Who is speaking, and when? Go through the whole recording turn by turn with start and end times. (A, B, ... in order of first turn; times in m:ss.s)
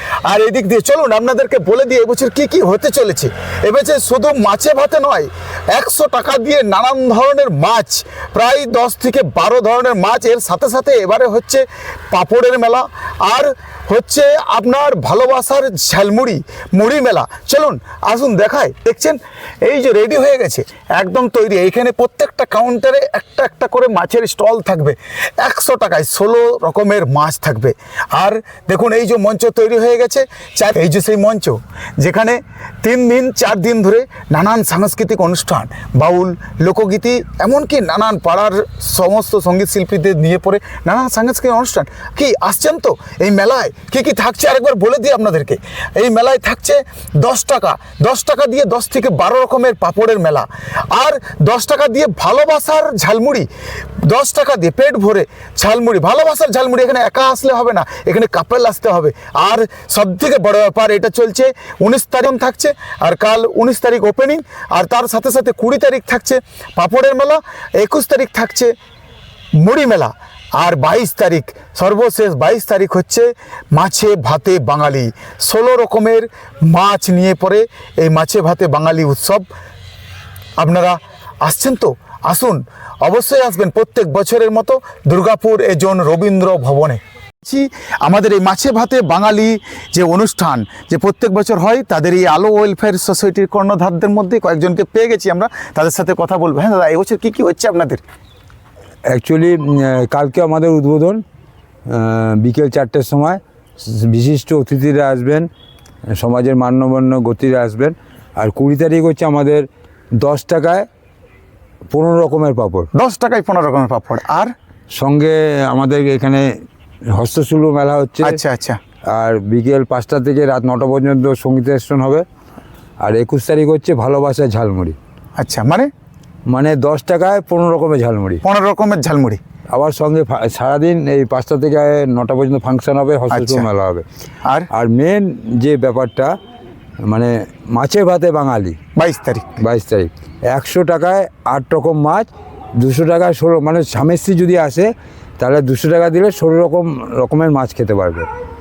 0:00.2-0:53.5 A
0:54.0-1:08.7 A
1:09.6-1:19.5 A
1:20.6-1:38.0 A
1:39.1-1:41.2 B
1:41.9-1:45.5 B
1:46.1-1:49.6 B
1:50.2-1:50.8 B
1:51.9-1:52.9 B
1:52.9-1:54.5 A
1:55.0-1:56.5 B
1:57.1-1:58.4 B
1:58.2-1:58.8 A
1:59.1-2:02.2 B
2:03.0-2:05.0 B
2:05.4-2:05.9 A
2:06.5-2:08.4 B
2:08.4-2:09.4 A
2:09.7-2:14.0 B
2:13.3-2:13.7 A
2:14.7-2:16.3 B
2:17.0-2:18.8 B
2:19.0-2:19.5 A
2:19.6-2:28.3 B